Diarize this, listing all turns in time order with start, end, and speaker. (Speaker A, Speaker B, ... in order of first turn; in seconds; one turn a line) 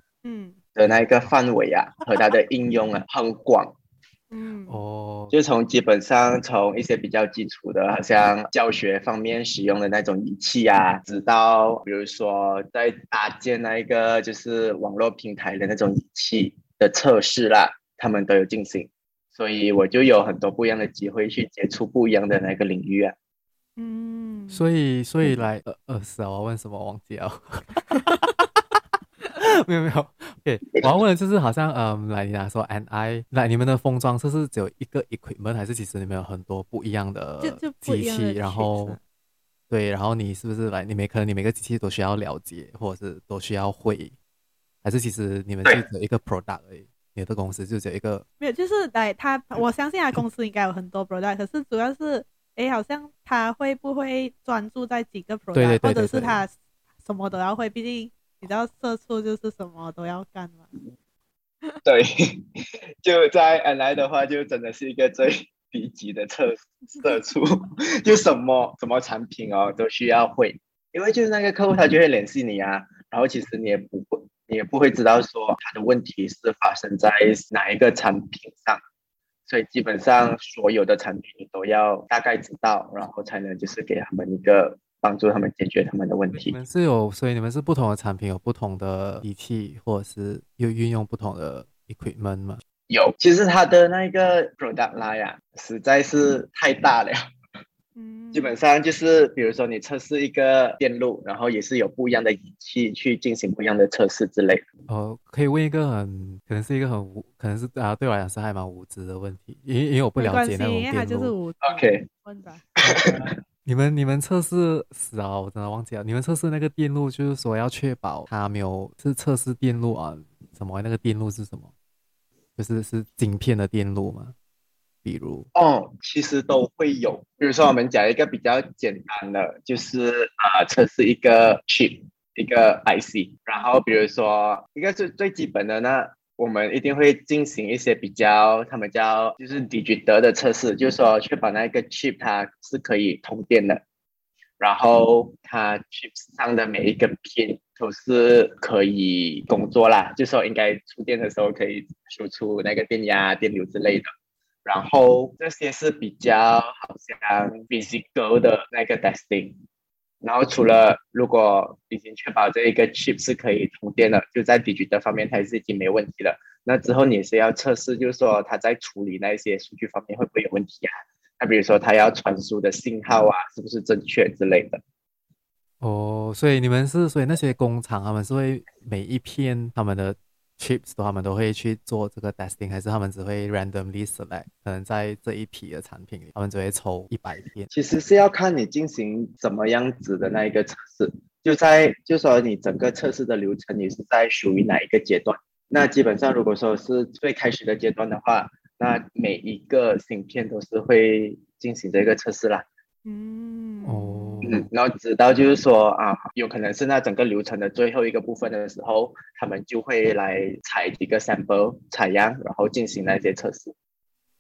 Speaker A: 0.2-0.6
Speaker B: 0.8-3.8
Speaker A: 4.3-4.8
Speaker C: 4.7-5.3
Speaker B: 5.3-23.1
Speaker A: 23.8-24.7
Speaker C: 24.5-28.3
Speaker C: 29.4-39.0
Speaker A: 37.4-39.0
Speaker C: 39.7-44.1
Speaker C: 44.8-48.2
Speaker A: 48.4-60.7
Speaker C: 55.5-56.4
Speaker B: 61.9-62.5
Speaker B: 63.0-78.8
Speaker B: 79.5-86.6
Speaker C: 86.3-92.6
Speaker B: 92.9-97.2
Speaker A: 98.0-98.6
Speaker B: 98.3-104.6
Speaker C: 104.9-111.3
Speaker A: 110.2-112.6
Speaker B: 111.6-112.1
Speaker B: 112.8-113.3
Speaker C: 113.7-121.7
Speaker C: 122.6-124.3
Speaker C: 125.0-125.5
Speaker B: 125.5-143.8
Speaker B: 144.6-154.1
Speaker B: 154.7-159.6
Speaker B: 160.2-174.8
Speaker C: 175.8-187.7
Speaker B: 187.7-202.7
Speaker A: 203.1-204.5
Speaker C: 203.8-204.7
Speaker B: 204.4-213.7